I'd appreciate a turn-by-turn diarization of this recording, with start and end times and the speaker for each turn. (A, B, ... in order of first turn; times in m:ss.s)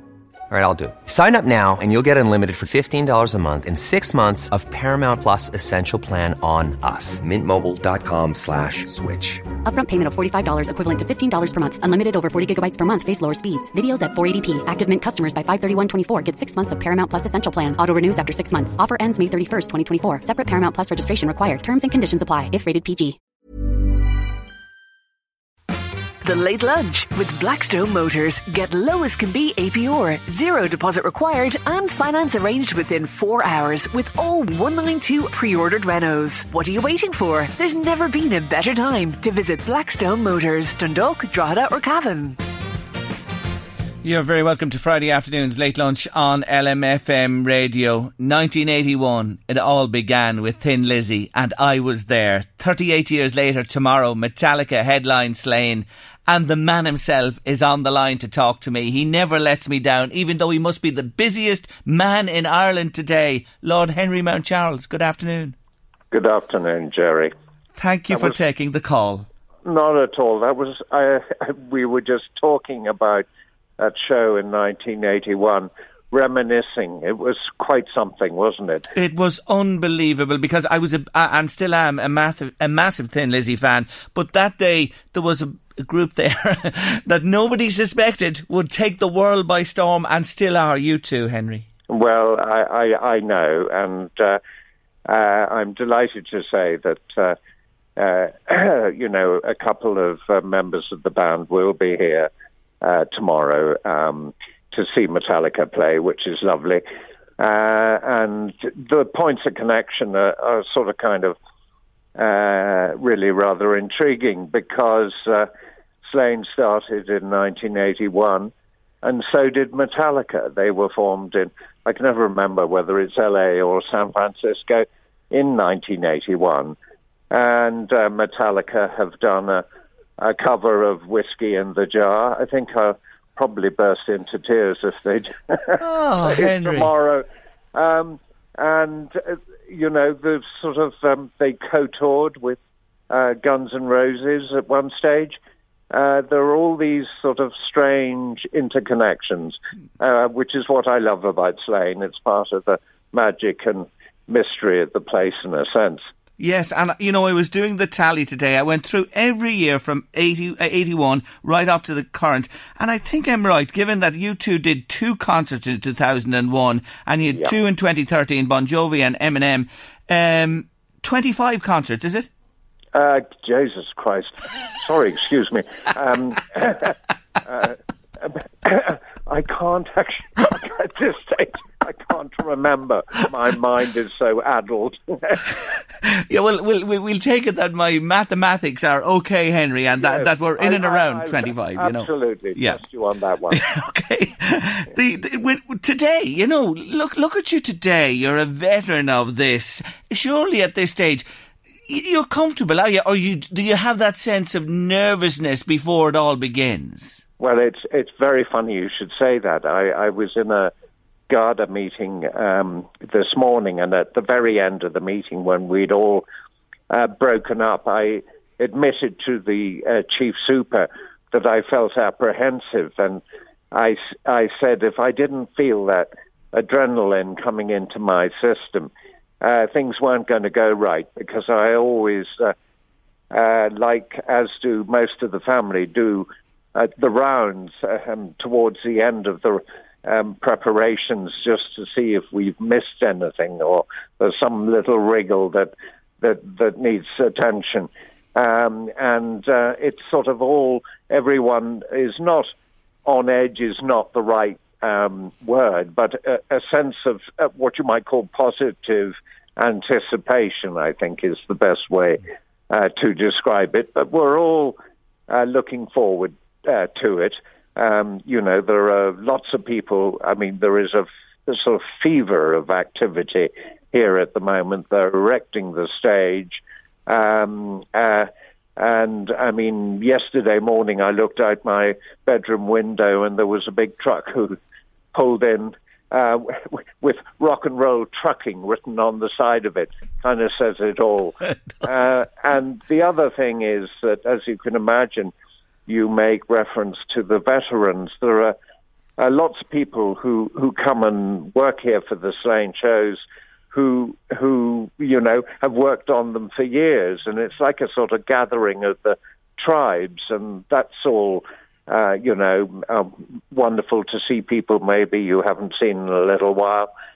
0:00.5-0:09.5 A
0:09.6-0:23.2 B
0:26.2-0:42.4 C
0:44.0-1:05.6 D
1:06.1-1:07.3 E
1:07.8-1:09.3 D
1:08.1-1:08.4 E
1:09.6-1:13.3 E
1:13.8-1:18.9 E
1:19.0-1:31.7 D
1:31.9-1:34.4 E
1:35.1-1:37.4 E
1:38.0-1:42.3 E
1:42.8-1:46.8 E
1:47.4-1:51.4 E
1:52.2-1:55.5 E
1:56.0-1:58.5 E
1:59.0-2:06.8 E
2:07.3-2:09.6 E
2:10.2-2:22.6 E
2:15.8-2:16.9 D
2:23.1-2:25.4 E
2:25.9-2:36.0 E
2:36.4-2:52.3 D
2:52.9-3:05.5 E
3:06.0-3:12.8 D
3:10.0-3:13.6 E
3:13.5-3:21.2 D
3:21.9-3:27.2 D
3:27.4-3:30.7 E
3:31.3-3:36.2 E
3:36.9-3:52.6 E
3:53.3-4:12.5 E
4:13.1-4:44.6 E
4:45.1-4:55.3 E
4:55.9-4:58.6 E
4:59.2-5:16.9 E